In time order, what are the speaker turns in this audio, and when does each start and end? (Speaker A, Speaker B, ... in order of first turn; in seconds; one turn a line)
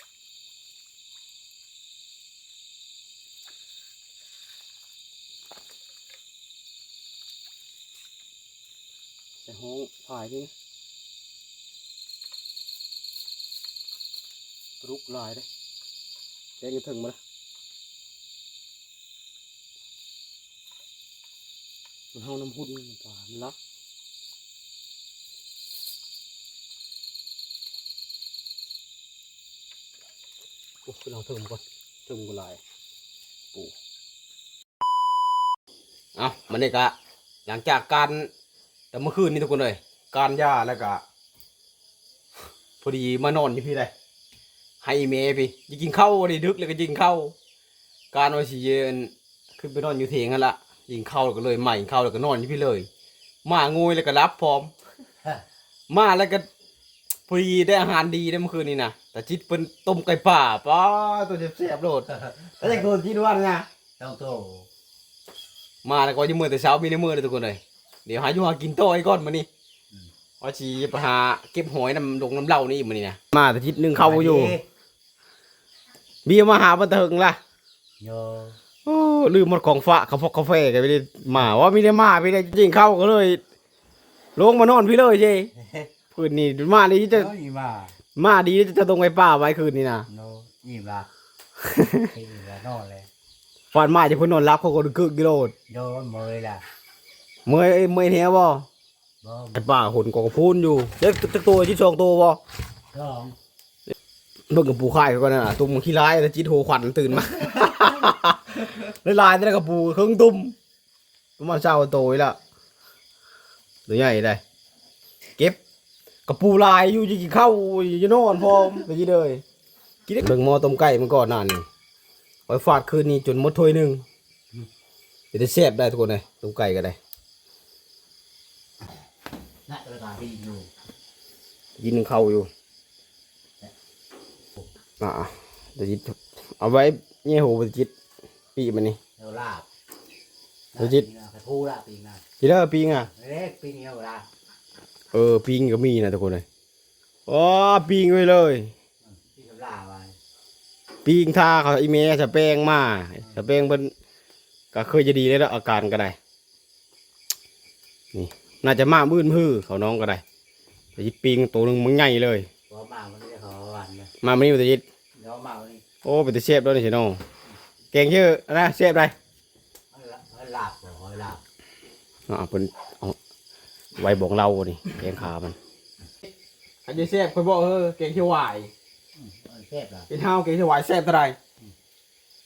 Speaker A: 9.4-10.5
Speaker A: 14.8-15.5
Speaker A: 16.6-17.2
Speaker A: 22.1-23.6
Speaker A: 30.9-32.6
Speaker A: 36.2-36.9
Speaker A: 37.5-38.3
Speaker A: 38.9-41.0
Speaker A: 42.8-43.9
Speaker A: 44.8-47.4
Speaker A: 48.1-52.9
Speaker A: 53.5-54.7
Speaker A: 55.9-56.5
Speaker A: 57.3-63.7
Speaker B: 62.1-62.9
Speaker B: 64.0-64.7
Speaker A: 65.8-69.5
Speaker A: 70.4-74.6
Speaker B: 74.0-74.6
Speaker A: 76.2-77.4
Speaker B: 78.0-78.6
Speaker A: 78.8-83.4
Speaker A: 84.4-85.5
Speaker B: 85.6-85.9
Speaker A: 86.1-87.3
Speaker B: 87.1-88.0
Speaker A: 88.2-90.1
Speaker B: 90.1-91.1
Speaker A: 91.6-92.1
Speaker B: 92.1-93.1
Speaker A: 93.7-95.5
Speaker B: 95.7-96.6
Speaker A: 97.5-98.7
Speaker B: 99.2-99.6
Speaker A: 99.6-102.4
Speaker B: 102.9-103.4
Speaker A: 104.5-110.5
Speaker A: 111.4-112.4
Speaker A: 113.9-114.4
Speaker A: 116.3-119.4
Speaker A: 120.1-121.7
Speaker A: 122.5-124.0
Speaker A: 125.3-127.0
Speaker B: 129.7-130.7
Speaker A: 131.8-132.5
Speaker A: 135.0-137.9
Speaker A: 138.6-139.0
Speaker B: 139.2-139.7
Speaker B: 140.8-142.2
Speaker A: 140.8-141.1
Speaker A: 142.4-143.1
Speaker B: 143.1-144.3
Speaker A: 145.1-146.4
Speaker A: 147.3-148.7
Speaker B: 149.1-150.2
Speaker A: 151.1-153.9
Speaker A: 154.7-156.2
Speaker A: 158.1-160.2
Speaker A: 161.0-162.5
Speaker B: 162.7-164.1
Speaker A: 164.2-164.8
Speaker B: 165.2-165.8
Speaker A: 166.0-167.2
Speaker A: 167.9-169.1
Speaker B: 169.9-171.4
Speaker A: 172.3-173.2
Speaker A: 174.0-175.6
Speaker A: 176.8-178.7
Speaker B: 179.2-180.1
Speaker A: 180.1-181.4